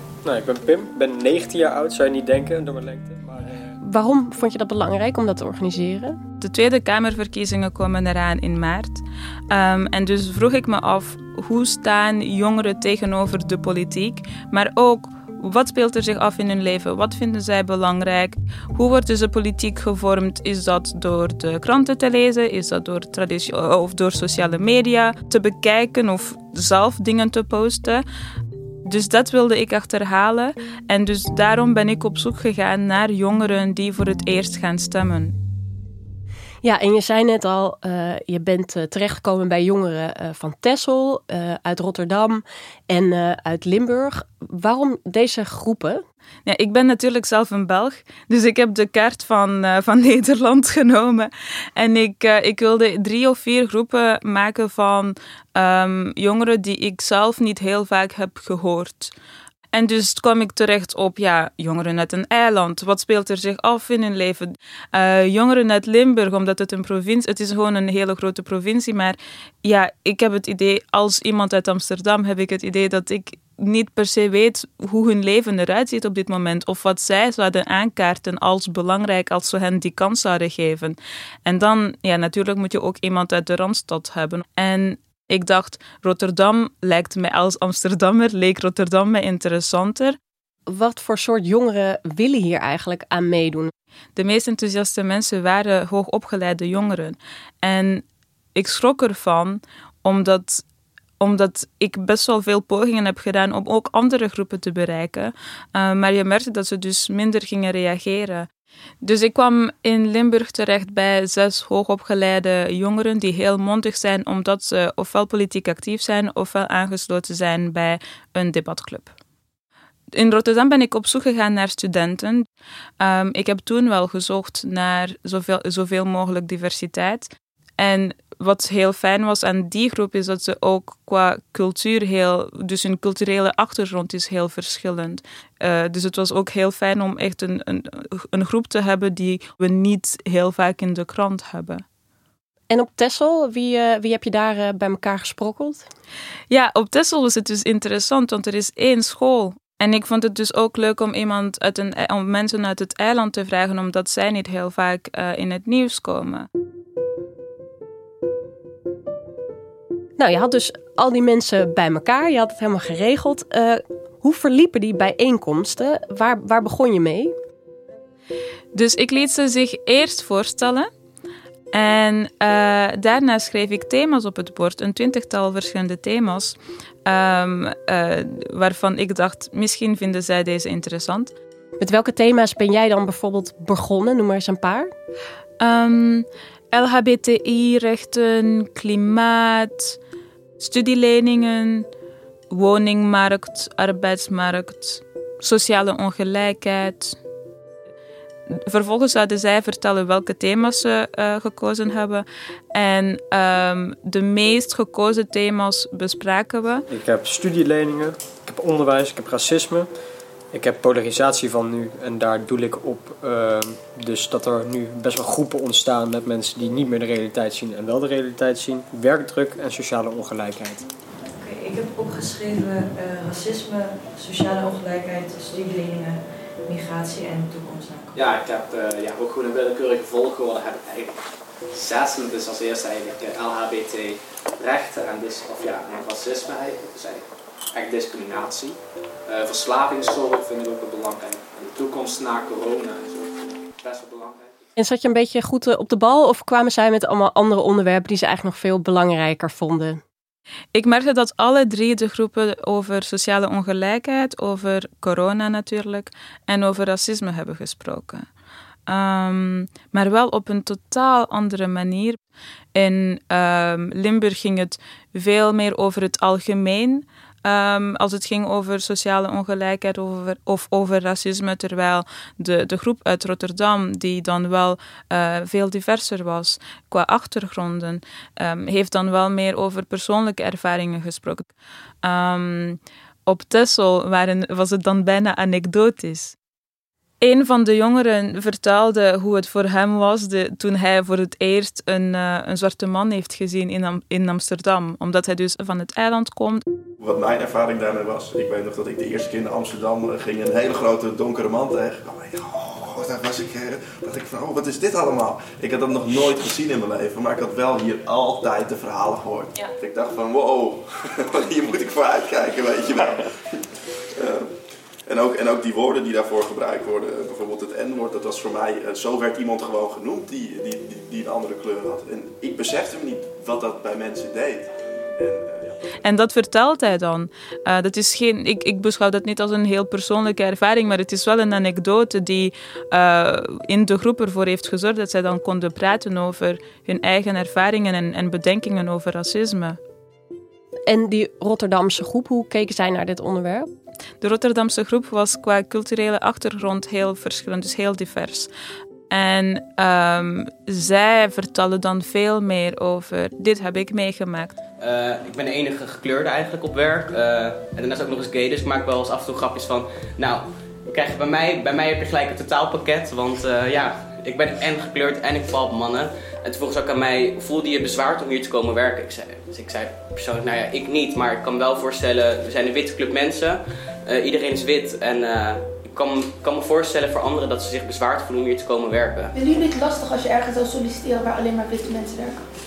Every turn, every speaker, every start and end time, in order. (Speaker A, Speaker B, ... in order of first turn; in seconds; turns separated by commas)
Speaker A: 0.2-3.5, Speaker B: 3.8-6.2, Speaker C: 6.4-28.0, Speaker C: 28.9-35.4, Speaker B: 36.6-46.0, Speaker C: 46.5-59.1, Speaker C: 59.7-90.2, Speaker B: 90.7-93.7, Speaker C: 94.2-100.6, Speaker C: 101.2-108.5, Speaker C: 109.0-119.2, Speaker C: 120.1-122.5, Speaker C: 123.0-141.8, Speaker B: 142.7-145.9, Speaker C: 146.5-156.5, Speaker B: 160.2-167.3, Speaker C: 168.7-170.9, Speaker C: 171.7-181.3, Speaker B: 181.8-184.9, Speaker C: 185.6-190.0, Speaker C: 190.6-191.9, Speaker C: 192.5-197.2, Speaker C: 198.6-206.9, Speaker A: 206.9-209.9, Speaker A: 210.5-220.8, Speaker D: 221.3-228.2, Speaker E: 228.2-231.1, Speaker E: 231.7-238.8, Speaker E: 239.3-244.5, Speaker B: 244.8-250.0, Speaker C: 250.7-258.3, Speaker C: 258.9-262.2, Speaker C: 262.8-281.5, Speaker C: 282.0-286.4, Speaker C: 287.2-296.6, Speaker F: 297.0-314.5, Speaker F: 315.1-325.8, Speaker C: 326.0-339.8, Speaker B: 340.9-343.7, Speaker C: 344.2-348.5, Speaker C: 349.1-354.6, Speaker G: 354.8-379.3, Speaker H: 379.3-382.4